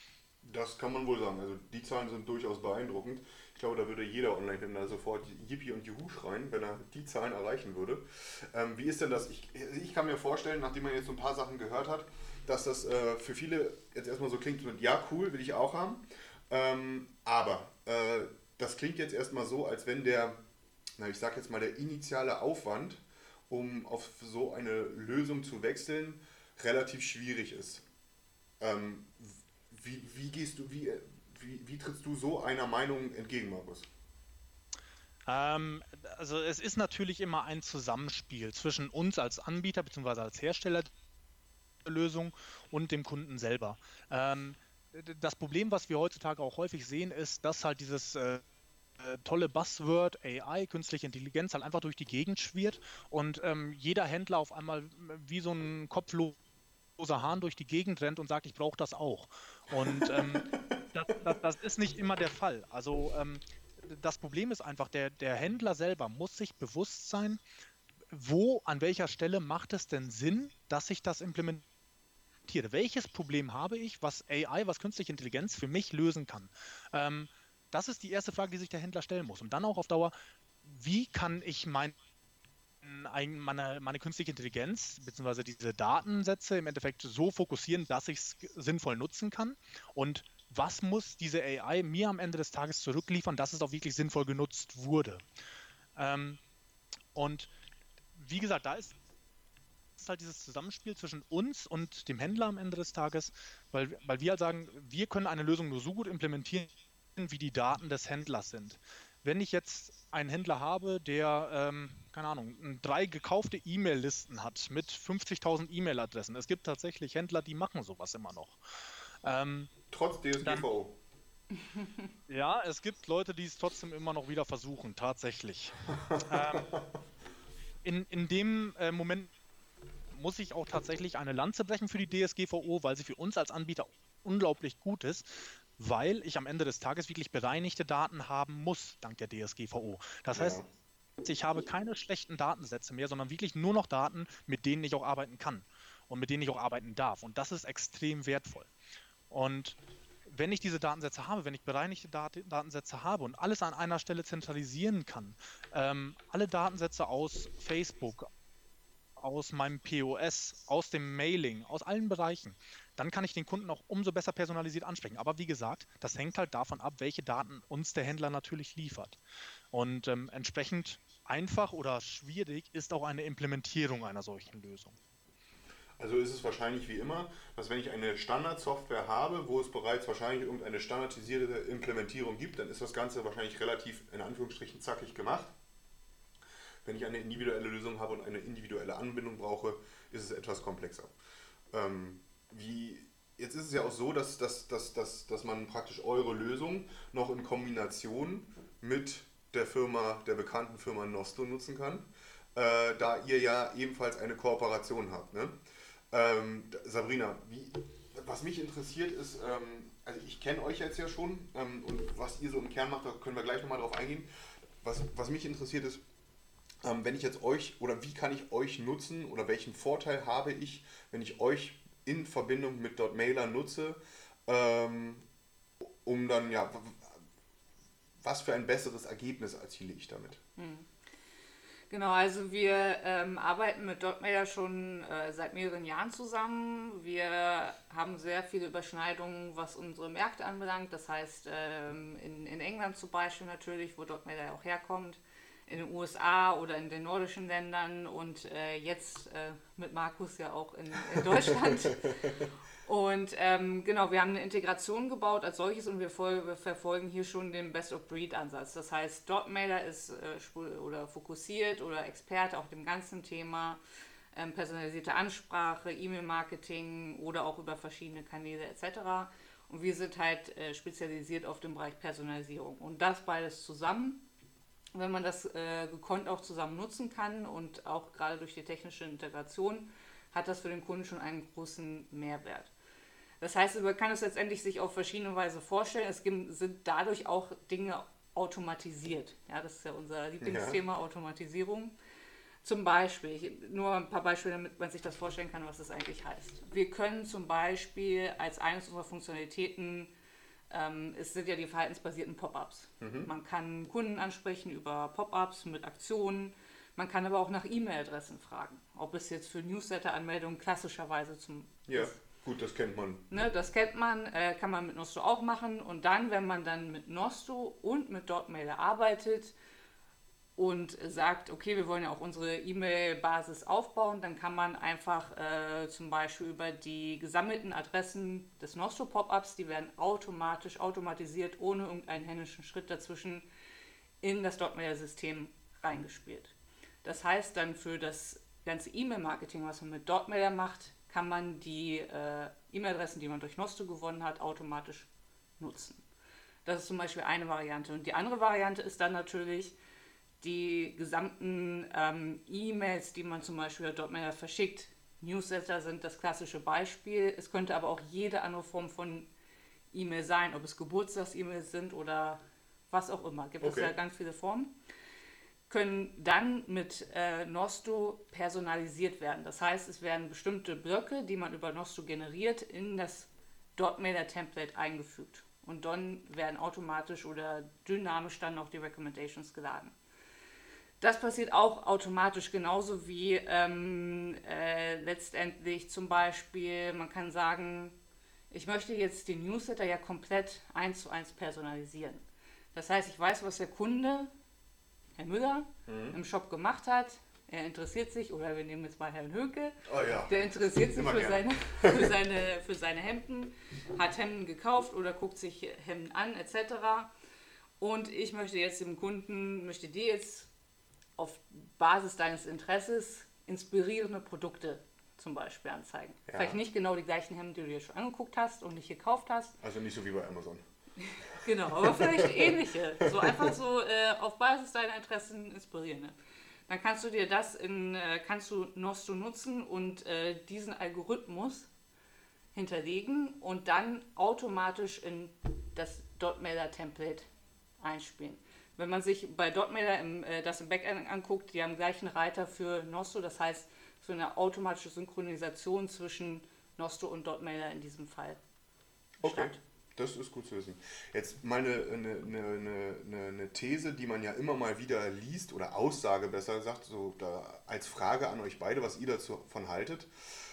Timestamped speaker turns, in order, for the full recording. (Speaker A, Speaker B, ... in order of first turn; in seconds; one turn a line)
Speaker A: 0.4-20.4
Speaker A: 21.0-27.9
Speaker A: 28.6-33.9
Speaker B: 35.3-40.9
Speaker B: 41.9-48.4
Speaker B: 49.0-56.4
Speaker B: 57.0-67.4
Speaker A: 59.8-60.8
Speaker B: 68.1-71.6
Speaker B: 72.5-80.1
Speaker B: 80.6-82.0
Speaker B: 82.8-95.2
Speaker B: 96.0-96.4
Speaker B: 97.1-97.5
Speaker B: 98.1-99.0
Speaker B: 100.0-119.7
Speaker A: 119.9-121.0
Speaker B: 120.4-120.7
Speaker C: 121.7-122.1
Speaker B: 122.3-126.7
Speaker A: 126.0-126.9
Speaker B: 127.8-129.3
Speaker B: 130.1-140.6
Speaker A: 140.3-140.7
Speaker B: 141.2-148.7
Speaker B: 149.3-158.3
Speaker B: 159.2-169.2
Speaker B: 169.7-175.0
Speaker A: 176.0-185.5
Speaker A: 186.8-191.1
Speaker A: 191.7-205.6
Speaker A: 206.1-214.3
Speaker A: 214.8-216.0
Speaker A: 216.8-225.2
Speaker A: 225.8-227.2
Speaker A: 228.2-230.4
Speaker C: 230.6-230.9
Speaker C: 231.9-252.1
Speaker A: 251.1-252.5
Speaker C: 252.8-263.8
Speaker C: 264.3-274.2
Speaker C: 274.9-282.7
Speaker C: 283.4-291.9
Speaker A: 290.4-290.8
Speaker C: 292.6-300.1
Speaker C: 300.7-312.2
Speaker A: 303.0-303.3
Speaker A: 311.9-313.2
Speaker C: 313.3-319.5
Speaker C: 320.6-333.4
Speaker C: 334.2-346.0
Speaker C: 346.6-349.7
Speaker C: 350.4-359.3
Speaker C: 359.9-362.4
Speaker C: 362.9-364.7
Speaker A: 363.6-363.9
Speaker C: 365.7-379.9
Speaker C: 381.0-387.9
Speaker C: 388.5-392.2
Speaker C: 392.7-394.3
Speaker C: 395.2-407.1
Speaker A: 395.9-396.2
Speaker A: 399.9-402.1
Speaker C: 407.8-410.5
Speaker C: 411.2-419.5
Speaker A: 416.3-416.6
Speaker A: 419.6-420.6
Speaker C: 421.0-426.1
Speaker A: 421.4-423.5
Speaker C: 426.7-431.7
Speaker C: 432.5-437.2
Speaker C: 437.8-448.4
Speaker A: 449.2-460.1
Speaker C: 449.2-449.6